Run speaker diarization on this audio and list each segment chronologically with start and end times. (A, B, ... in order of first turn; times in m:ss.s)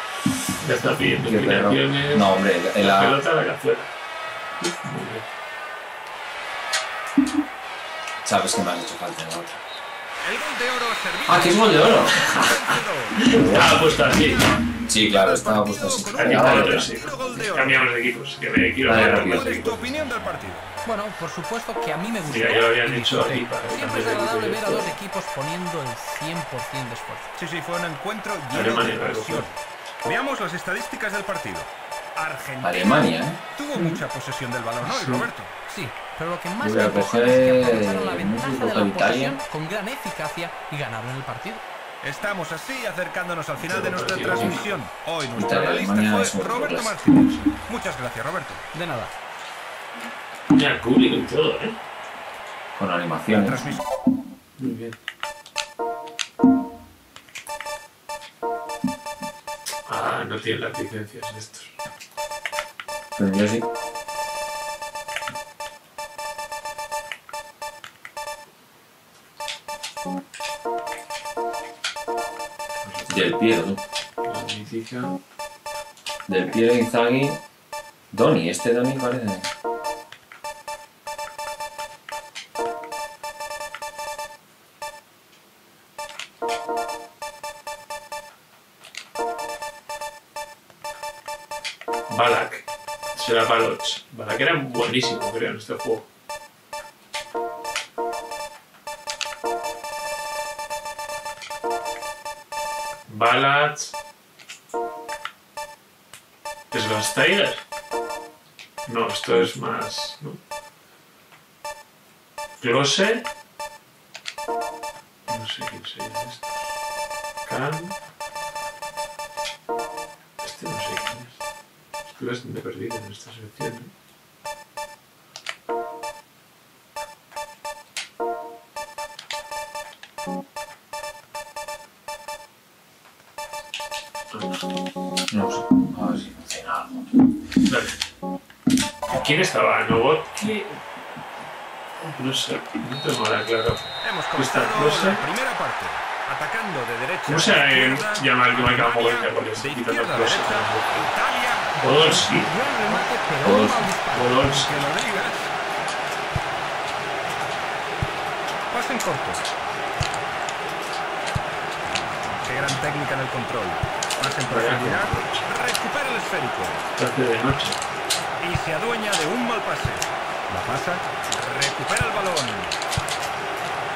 0:00.6-0:03.9 A
0:01.3-0:03.2 B
0:04.8-0:05.2 A
0:08.2-0:09.6 B
0:10.2-0:17.9 C
0:11.3-0:12.5 B
0:12.2-0:12.4 A
0:13.2-0:14.4 A
0:13.3-0:13.8 B
0:14.9-0:16.9 B
0:16.2-0:19.9 A
0:18.8-0:19.5 B
0:18.9-0:20.7 C
0:20.8-0:27.3 D
0:22.2-0:24.9 A
0:27.4-0:35.5 C
0:28.5-0:29.5 A
0:32.6-0:33.8 B
0:34.8-0:35.3 A
0:35.7-0:41.6 D
0:36.6-0:39.4 B
0:42.0-0:48.6 C
0:43.6-0:44.8 A
0:45.4-0:47.0 B
0:48.7-0:49.1 D
0:50.5-0:51.8 A
0:52.8-0:53.6 B
0:53.3-0:53.8 C
0:54.6-0:55.0 A
0:59.8-1:01.7 A
1:03.2-1:03.6 B
1:12.8-1:13.3 A
1:13.1-1:13.8 B
1:14.2-1:15.2 A
1:16.3-1:17.4 B
1:18.1-1:19.5 B
1:32.1-1:36.0 A
1:43.1-1:43.9 A
1:46.7-1:47.6 A
1:48.8-1:50.4 A
1:52.6-1:53.2 A
1:55.3-1:56.5 A
1:57.4-1:57.9 A
2:00.4-2:01.4 A
2:02.0-2:03.9 A
2:14.3-2:14.6 A
2:15.3-2:17.1 B
2:17.6-2:18.0 A
2:19.1-2:20.8 A
2:22.0-2:25.2 A
2:24.0-2:33.0 C
2:27.2-2:31.1 A
2:31.8-2:32.5 A
2:32.3-2:34.3 D
2:33.4-2:33.8 B
2:34.1-2:34.7 A
2:34.1-2:35.5 C
2:38.7-2:39.5 C
2:42.4-2:46.9 C
2:44.5-2:45.4 A
2:47.0-2:47.8 A
2:48.4-2:52.8 C